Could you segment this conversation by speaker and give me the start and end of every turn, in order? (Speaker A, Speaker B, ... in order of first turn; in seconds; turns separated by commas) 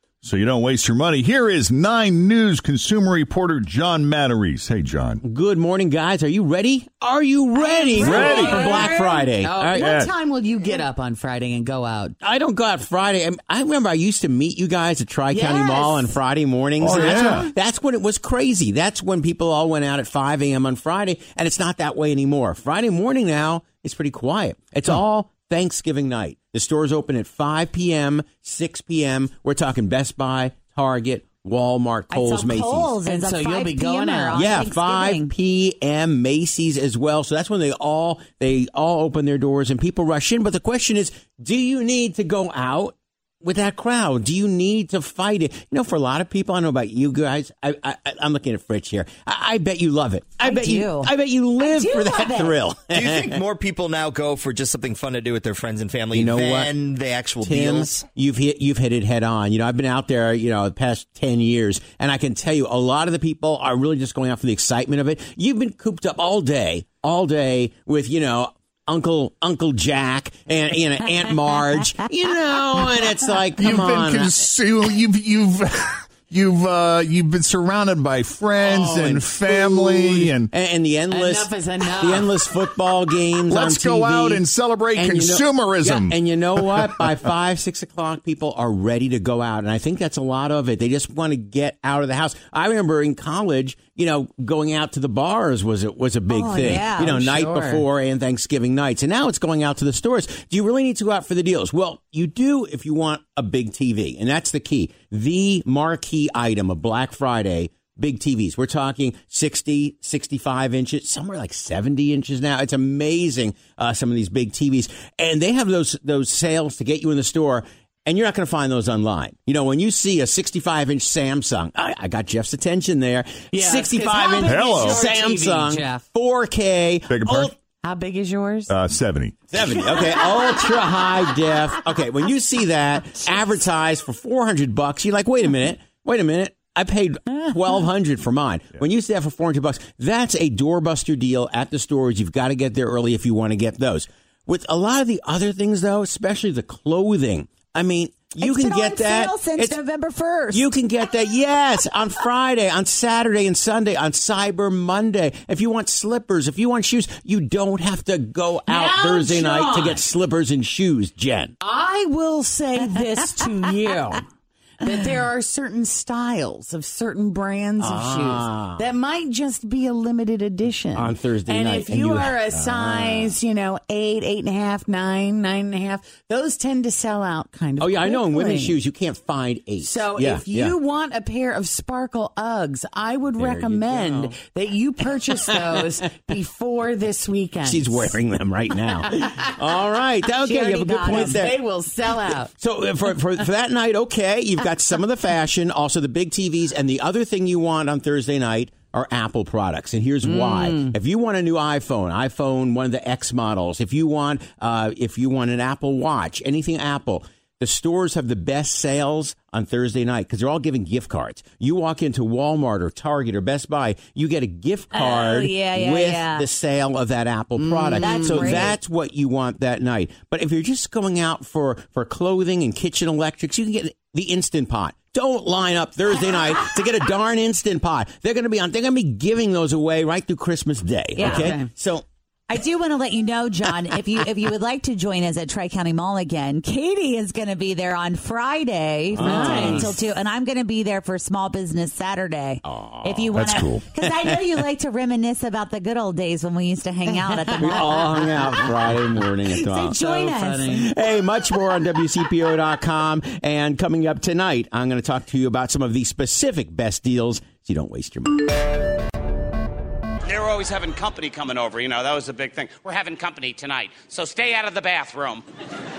Speaker A: 0.2-5.2, Speaker B: 5.2-9.9, Speaker C: 7.5-12.2, Speaker A: 8.0-8.8, Speaker A: 9.8-10.1, Speaker B: 12.2-33.0, Speaker C: 15.3-16.2, Speaker A: 16.8-17.5, Speaker C: 16.8-17.5, Speaker D: 32.1-35.3, Speaker C: 33.0-34.6, Speaker B: 34.4-53.5, Speaker D: 50.4-52.6, Speaker E: 52.9-58.1, Speaker B: 56.1-56.7, Speaker B: 57.4-74.4, Speaker A: 73.6-80.5, Speaker B: 78.6-84.4, Speaker C: 81.0-82.7, Speaker A: 83.5-86.9, Speaker B: 84.9-127.5, Speaker D: 96.3-97.2, Speaker C: 97.0-97.8, Speaker C: 123.5-126.0, Speaker A: 124.4-125.0, Speaker A: 127.1-127.5, Speaker C: 127.3-128.7, Speaker A: 128.7-129.4, Speaker B: 129.5-149.8, Speaker C: 130.0-131.0, Speaker D: 148.4-150.7, Speaker B: 150.5-161.5, Speaker C: 158.7-160.0, Speaker C: 161.6-164.2, Speaker C: 164.8-178.8, Speaker B: 167.8-168.8, Speaker B: 170.9-173.4, Speaker B: 177.8-180.8, Speaker C: 179.8-188.2, Speaker B: 183.4-184.3, Speaker B: 187.6-191.6, Speaker C: 188.8-189.1, Speaker D: 190.4-191.4, Speaker C: 191.1-192.5, Speaker B: 192.6-232.0, Speaker C: 200.2-200.9, Speaker D: 214.9-216.4, Speaker C: 217.6-218.7, Speaker D: 217.9-218.8, Speaker D: 231.2-231.6, Speaker C: 231.2-231.7, Speaker D: 232.5-248.6, Speaker B: 239.1-240.0, Speaker C: 239.2-239.9, Speaker B: 242.7-243.5, Speaker A: 243.3-243.9, Speaker C: 247.2-248.3, Speaker B: 247.6-250.0, Speaker D: 249.5-250.9, Speaker C: 249.9-250.8, Speaker B: 250.7-258.5, Speaker F: 260.2-265.4